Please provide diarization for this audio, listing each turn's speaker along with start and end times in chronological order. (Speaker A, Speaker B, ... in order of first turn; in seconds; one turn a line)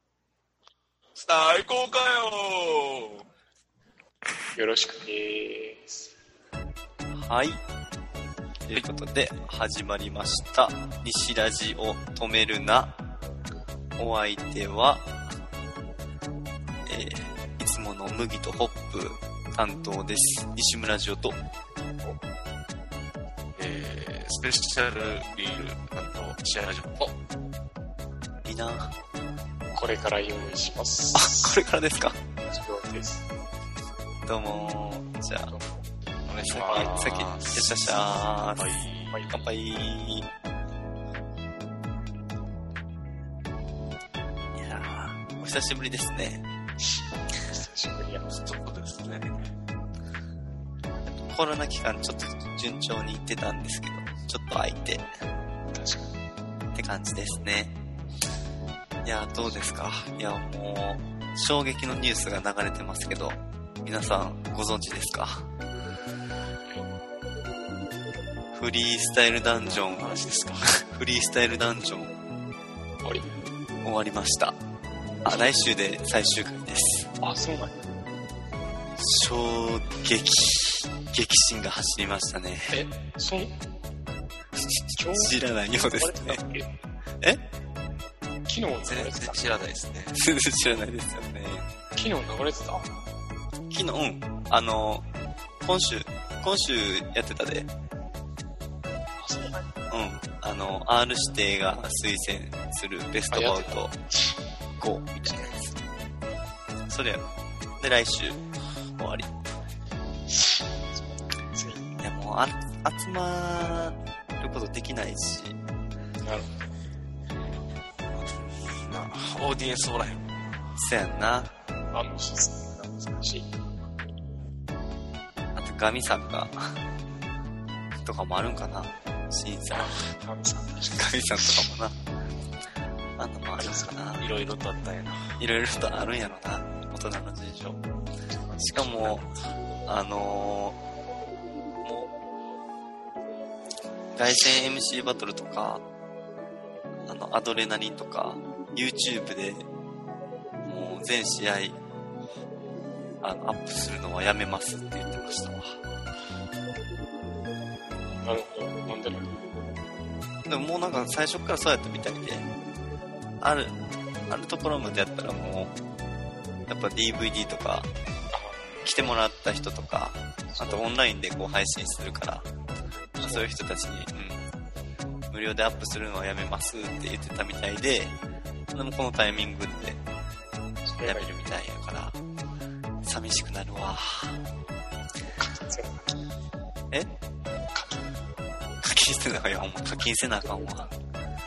Speaker A: 1.1-3.2
Speaker B: 4.5-6.1
Speaker C: 7.1-7.6
Speaker C: 8.7-13.0
Speaker C: 14.0-15.2
Speaker C: 16.9-21.4
Speaker A: 23.6-27.1
Speaker C: 28.4-28.9
Speaker B: 29.7-31.6
Speaker C: 31.1-32.2
Speaker B: 32.5-33.2
Speaker C: 34.3-35.5
Speaker B: 35.5-35.9
Speaker A: 36.3-38.0
Speaker B: 36.5-37.1
Speaker C: 36.5-38.7
Speaker A: 38.6-39.2
Speaker B: 39.1-39.5
Speaker C: 39.3-40.3
Speaker C: 44.6-46.4
Speaker B: 47.4-48.3
Speaker A: 48.3-49.5
Speaker C: 51.1-55.1
Speaker B: 55.7-56.1
Speaker C: 56.8-57.8
Speaker C: 59.0-65.5
Speaker C: 68.5-70.2
Speaker A: 69.6-70.8
Speaker C: 70.8-72.1
Speaker B: 73.0-73.3
Speaker C: 73.8-74.6
Speaker B: 75.2-75.6
Speaker C: 75.2-77.1
Speaker B: 77.2-77.8
Speaker C: 79.0-82.8
Speaker B: 82.7-83.6
Speaker C: 84.7-86.4
Speaker B: 85.0-86.7
Speaker B: 88.5-89.5
Speaker A: 88.8-90.2
Speaker C: 90.1-91.7
Speaker B: 92.0-92.9
Speaker C: 93.7-95.0
Speaker C: 95.6-97.7
Speaker B: 99.2-99.7
Speaker C: 99.9-103.9
Speaker B: 103.3-104.3
Speaker C: 104.8-105.8
Speaker C: 106.9-107.2
Speaker C: 107.8-108.4
Speaker C: 109.0-109.3
Speaker B: 110.3-111.9
Speaker C: 112.0-115.6
Speaker B: 116.2-116.5
Speaker A: 118.1-120.5
Speaker C: 120.8-121.5
Speaker B: 121.9-123.7
Speaker C: 125.5-126.8
Speaker C: 128.0-130.0
Speaker B: 129.7-131.7
Speaker C: 130.9-131.9
Speaker C: 133.2-134.3
Speaker B: 133.6-134.0
Speaker A: 134.2-135.4
Speaker C: 135.4-137.8
Speaker B: 138.3-139.1
Speaker C: 138.6-139.3
Speaker A: 138.8-139.2
Speaker C: 139.9-140.8
Speaker C: 141.8-142.1
Speaker C: 144.2-145.8
Speaker C: 147.1-149.7
Speaker C: 150.7-151.8
Speaker C: 153.2-155.8
Speaker B: 158.2-159.3
Speaker C: 160.5-162.5
Speaker C: 163.4-163.8
Speaker C: 164.3-165.7
Speaker C: 166.7-167.9
Speaker B: 168.3-168.8
Speaker C: 168.8-172.5
Speaker B: 170.5-170.9
Speaker B: 173.2-173.5
Speaker C: 173.2-174.4
Speaker C: 175.3-178.2
Speaker C: 178.7-180.0
Speaker B: 180.9-181.4
Speaker C: 181.0-182.2
Speaker C: 183.0-184.4
Speaker B: 185.4-186.2
Speaker B: 187.7-188.2
Speaker C: 188.8-190.9
Speaker B: 190.4-190.9